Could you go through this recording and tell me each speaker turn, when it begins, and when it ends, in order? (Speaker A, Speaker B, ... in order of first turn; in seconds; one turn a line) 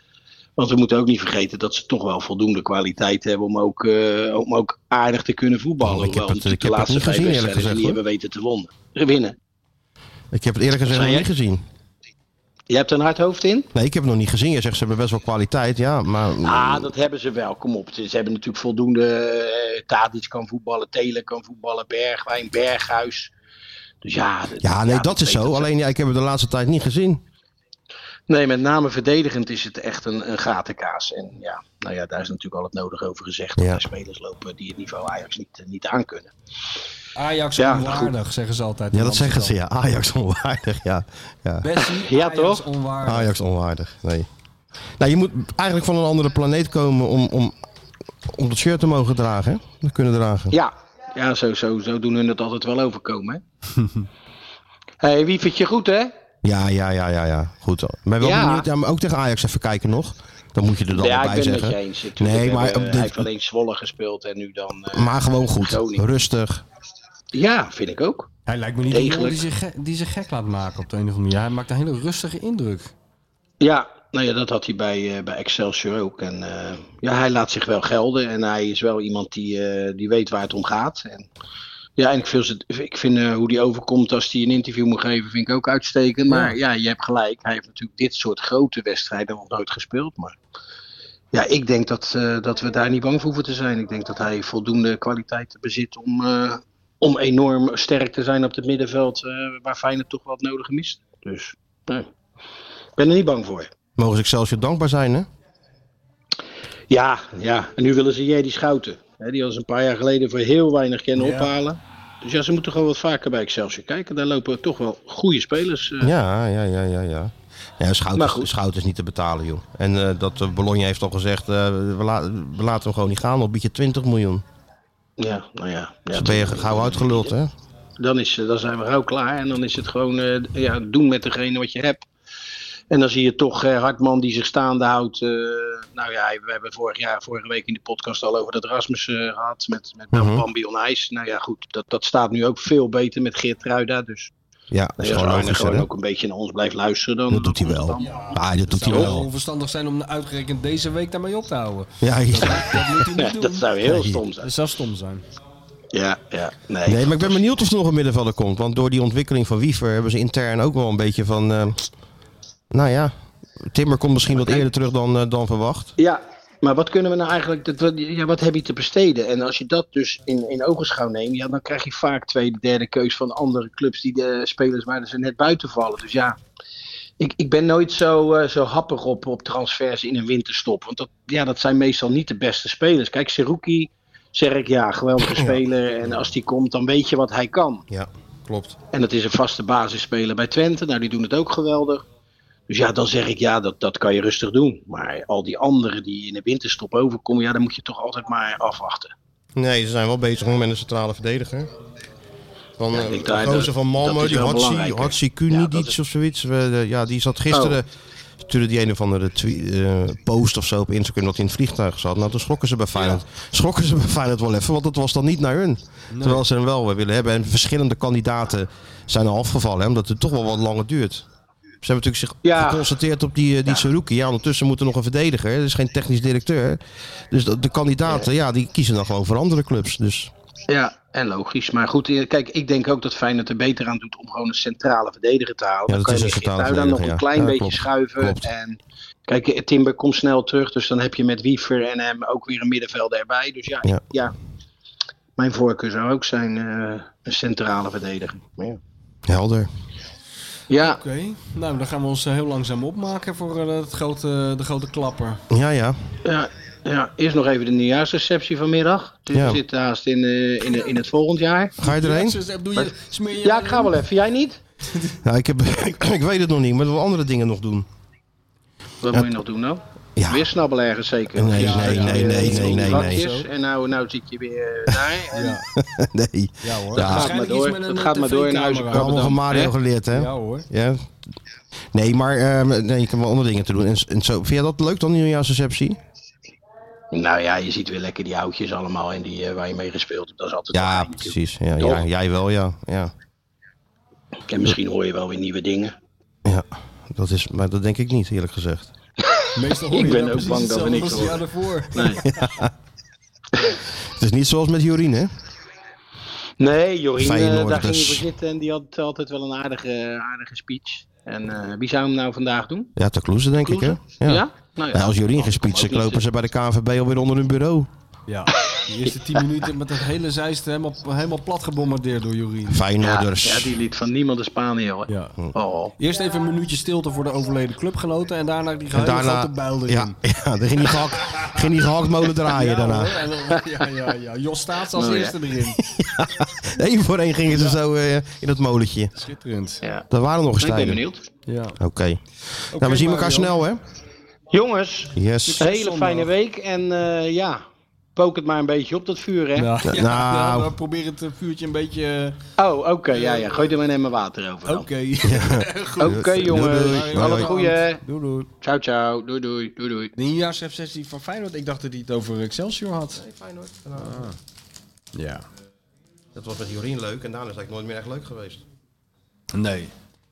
Speaker A: 0.6-9.3
Speaker B: 5.8-8.0
Speaker B: 10.3-11.6
Speaker A: 10.8-11.3
Speaker A: 12.7-13.7
Speaker B: 13.7-16.9
Speaker A: 16.4-23.3
Speaker A: 24.0-25.7
Speaker B: 24.6-27.2
Speaker A: 28.3-36.3
Speaker B: 33.6-33.8
Speaker C: 37.1-39.5
Speaker A: 37.6-38.1
Speaker B: 38.9-41.8
Speaker C: 41.6-43.4
Speaker A: 42.0-42.6
Speaker B: 43.0-44.3
Speaker B: 45.0-47.5
Speaker B: 48.3-50.6
Speaker A: 50.5-53.4
Speaker A: 55.0-56.1
Speaker B: 56.4-63.3
Speaker A: 58.2-58.7
Speaker A: 60.9-66.0
Speaker B: 64.9-66.6
Speaker A: 67.3-68.3
Speaker C: 68.5-72.9
Speaker A: 68.9-69.4
Speaker A: 73.6-81.3
Speaker A: 82.0-90.3
Speaker C: 86.3-86.5
Speaker A: 91.3-102.1
Speaker A: 103.0-103.7
Speaker B: 104.0-105.3
Speaker A: 106.9-116.1
Speaker C: 111.2-111.5
Speaker B: 116.0-124.4
Speaker A: 118.1-118.5
Speaker A: 125.2-127.3
Speaker B: 126.1-127.5
Speaker A: 128.0-132.1
Speaker A: 132.9-144.3
Speaker B: 140.1-140.4
Speaker B: 144.7-145.9
Speaker A: 145.0-149.2
Speaker B: 147.3-149.3
Speaker C: 148.0-153.7
Speaker B: 152.0-153.0
Speaker A: 153.1-154.5
Speaker B: 153.8-154.2
Speaker C: 154.4-155.2
Speaker A: 155.9-157.5
Speaker B: 156.8-161.8
Speaker B: 162.7-165.9
Speaker A: 164.3-164.6
Speaker A: 166.0-176.4
Speaker A: 177.2-187.8
Speaker B: 185.2-185.6
Speaker B: 187.9-188.8
Speaker A: 188.9-192.0
Speaker A: 192.7-199.1
Speaker B: 199.6-201.7
Speaker B: 202.8-207.9
Speaker A: 202.9-205.9
Speaker A: 207.5-207.8
Speaker B: 208.4-221.2
Speaker A: 212.9-213.2
Speaker C: 216.1-216.4
Speaker B: 221.8-230.3
Speaker A: 222.4-222.9
Speaker A: 230.7-244.3
Speaker B: 235.9-238.5
Speaker A: 245.4-248.8
Speaker B: 249.3-249.7
Speaker A: 250.7-251.0
Speaker C: 250.8-255.4
Speaker B: 255.5-256.0
Speaker A: 256.2-261.8
Speaker B: 259.3-259.6
Speaker B: 261.8-262.4
Speaker C: 261.8-264.0
Speaker A: 263.4-264.6
Speaker B: 265.2-267.9
Speaker A: 269.0-275.6
Speaker B: 270.2-270.5
Speaker B: 271.3-273.2
Speaker C: 271.5-273.5
Speaker C: 275.3-275.6
Speaker B: 275.7-277.4
Speaker C: 276.6-279.4
Speaker A: 276.9-279.7
Speaker B: 278.9-281.1
Speaker C: 280.1-280.7
Speaker B: 281.9-286.0
Speaker A: 287.1-292.0
Speaker B: 290.7-293.1
Speaker A: 294.5-295.9
Speaker B: 296.4-298.9
Speaker A: 299.3-302.2
Speaker C: 299.5-302.2
Speaker B: 302.2-302.7
Speaker B: 303.7-305.3
Speaker A: 306.6-312.9
Speaker B: 307.2-308.2
Speaker B: 312.9-317.9
Speaker A: 313.6-316.2
Speaker C: 318.3-322.8
Speaker B: 322.7-323.8
Speaker A: 323.0-325.9
Speaker C: 325.1-325.4
Speaker C: 326.0-330.1
Speaker B: 328.9-333.2
Speaker C: 332.4-335.8
Speaker A: 334.9-335.4
Speaker B: 335.8-339.1
Speaker C: 337.5-337.8
Speaker C: 339.2-339.8
Speaker A: 339.8-340.1
Speaker B: 340.1-341.0
Speaker A: 340.6-341.2
Speaker C: 341.4-341.8
Speaker B: 341.8-343.8
Speaker C: 342.7-343.6
Speaker A: 344.5-347.6
Speaker B: 345.1-345.6
Speaker C: 345.4-346.3
Speaker A: 348.1-349.7
Speaker C: 349.6-352.4
Speaker B: 349.8-350.7
Speaker A: 352.6-354.9
Speaker C: 353.1-353.6
Speaker C: 354.6-358.5
Speaker B: 355.2-357.5
Speaker A: 356.0-358.0
Speaker A: 358.6-360.1
Speaker C: 360.1-363.2
Speaker B: 363.1-364.3
Speaker C: 364.0-364.4
Speaker C: 365.1-365.4
Speaker B: 366.3-368.6
Speaker C: 369.5-369.9